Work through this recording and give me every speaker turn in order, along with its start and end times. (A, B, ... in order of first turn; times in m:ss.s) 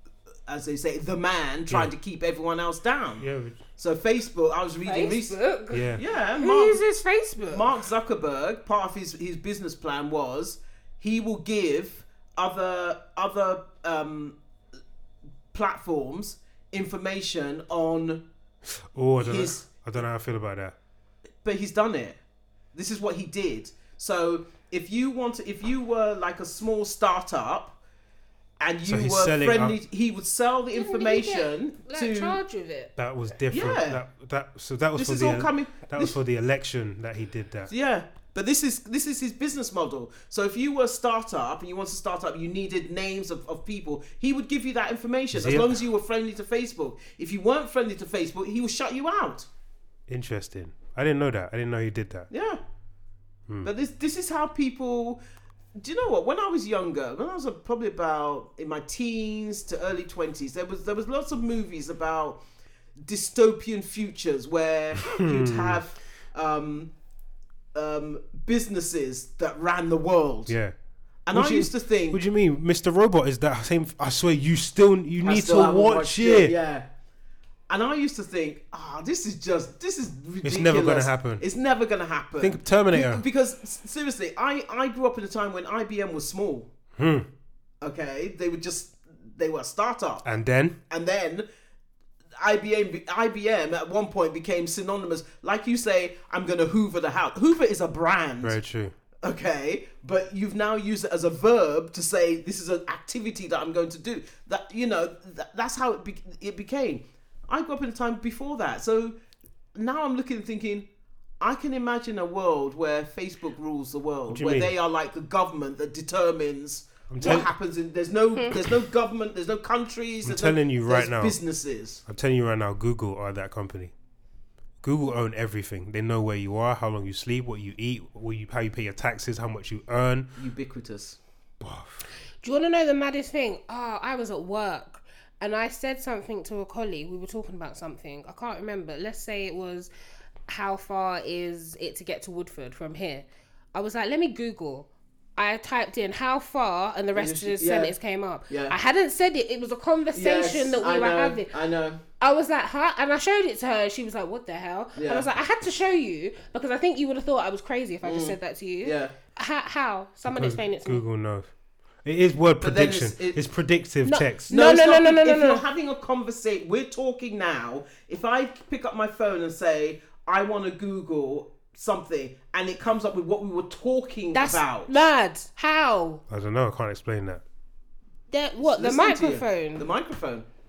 0:00.5-0:03.2 A
0:01.7-0:01.9 B
0:03.2-0:03.6 B
0:03.8-0:05.4 A
0:04.8-0:07.7 C
0:05.7-0:06.0 B
0:05.9-0:06.9 A
0:07.5-0:14.4 A
0:15.5-0:18.2 A
0:18.7-0:20.8 B
0:19.2-0:19.6 A
0:21.4-0:22.2 A
0:22.7-0:27.8 A
0:28.6-0:32.4 A
0:28.8-0:29.8 B
0:30.7-0:32.9 C
0:33.0-0:37.7 B
0:33.5-0:34.0 A
0:35.0-0:36.2 A
0:37.7-0:49.5 A
0:45.3-0:45.8 B
0:50.1-0:52.3 B
0:52.3-0:52.6 A
0:53.6-0:55.2 A
0:55.8-1:02.4 A
1:03.0-1:06.9 A
1:05.0-1:05.8 B
1:07.7-1:10.6 A
1:10.5-1:10.7 B
1:11.2-1:12.2 A
1:11.3-1:16.5 B
1:15.2-1:16.8 A
1:17.7-1:26.7 A
1:20.4-1:21.4 B
1:22.4-1:23.2 B
1:27.0-1:27.3 B
1:27.8-1:30.3 A
1:30.2-1:30.8 B
1:30.9-1:31.4 A
1:32.4-1:38.6 A
1:38.4-1:38.9 B
1:39.2-1:49.2 A
1:49.7-1:50.9 A
1:51.4-2:02.0 A
1:54.3-1:54.7 B
1:57.1-1:57.5 B
2:00.2-2:01.4 B
2:02.0-2:03.9 B
2:04.8-2:10.4 B
2:10.4-2:11.2 A
2:11.6-2:12.0 B
2:12.4-2:19.9 C
2:20.5-2:31.5 C
2:27.1-2:27.9 A
2:28.5-2:28.8 A
2:30.1-2:32.0 A
2:32.2-2:41.0 C
2:35.0-2:35.3 A
2:38.0-2:39.1 A
2:40.2-2:41.5 B
2:42.0-2:44.5 B
2:42.6-2:43.4 A
2:44.0-2:45.6 C
2:44.5-2:54.9 A
2:54.3-2:56.2 C
2:56.3-2:57.4 B
2:58.3-2:59.9 C
2:58.6-3:00.4 A